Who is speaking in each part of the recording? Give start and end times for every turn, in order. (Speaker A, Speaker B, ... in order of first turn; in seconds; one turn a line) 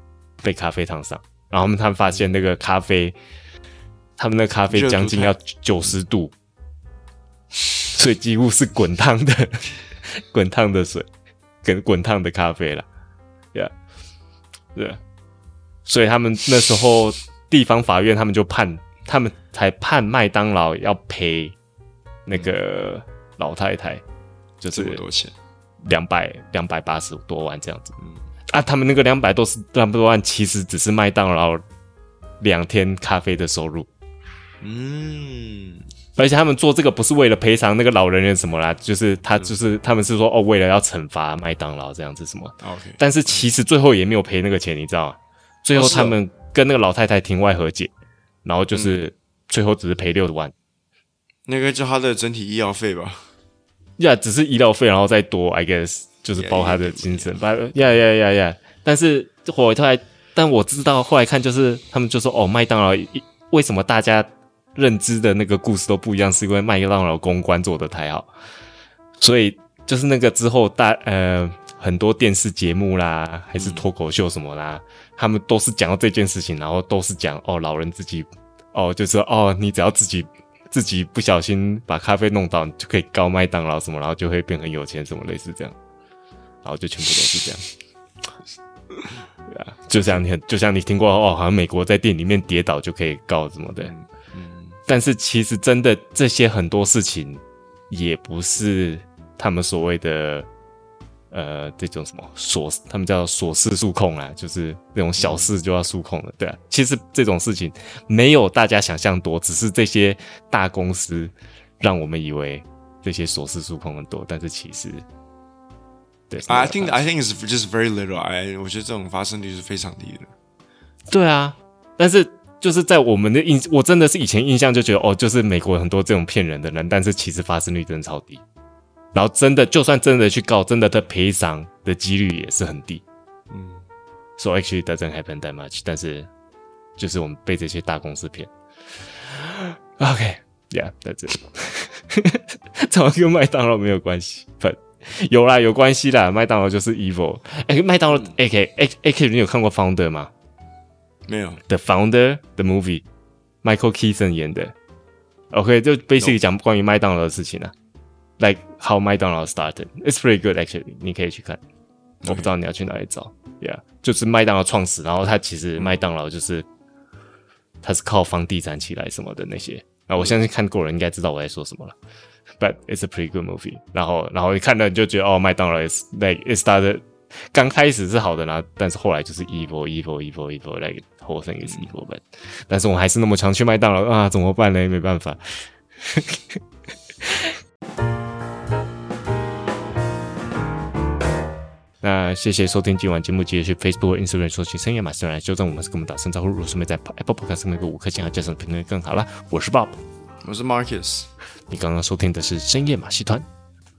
Speaker A: 0.4-3.2
Speaker A: 4.2-6.3
Speaker B: 4.7-5.3
Speaker A: 7.9-11.1
Speaker A: 11.6-12.9
Speaker A: 14.7-15.0
Speaker A: 15.9-21.6
Speaker A: 22.3-24.0
Speaker A: 24.6-25.0
Speaker B: 24.7-25.3
Speaker A: 25.8-27.9
Speaker A: 28.5-31.6
Speaker A: 32.4-33.9
Speaker B: 34.6-35.8
Speaker A: 36.2-47.9
Speaker B: 42.6-43.5
Speaker B: 45.8-46.2
Speaker A: 48.4-50.5
Speaker B: 48.7-49.0
Speaker B: 51.5-53.3
Speaker A: 54.0-68.3
Speaker B: 56.4-57.4
Speaker A: 69.2-85.8
Speaker B: 73.6-73.9
Speaker A: 86.6-87.7
Speaker B: 89.0-89.2
Speaker A: 89.5-93.9
Speaker B: 93.8-94.8
Speaker A: 94.9-100.5
Speaker A: 101.3-115.0
Speaker B: 105.2-105.5
Speaker A: 116.3-117.0
Speaker B: 116.5-120.3
Speaker A: 121.1-128.4
Speaker A: 129.1-133.0
Speaker B: 133.5-133.8
Speaker A: 134.4-136.3
Speaker A: 137.0-138.5
Speaker A: 139.2-150.3
Speaker B: 151.3-151.6
Speaker A: 151.7-153.0
Speaker A: 153.6-154.7
Speaker A: 155.5-157.7
Speaker A: 158.4-161.6
Speaker B: 162.2-162.5
Speaker A: 162.3-166.7
Speaker A: 167.8-172.0
Speaker A: 172.6-185.4
Speaker B: 181.7-181.9
Speaker A: 186.0-186.6
Speaker A: 187.2-187.6
Speaker A: 192.0-200.0
Speaker B: 200.4-201.3
Speaker A: 201.7-203.5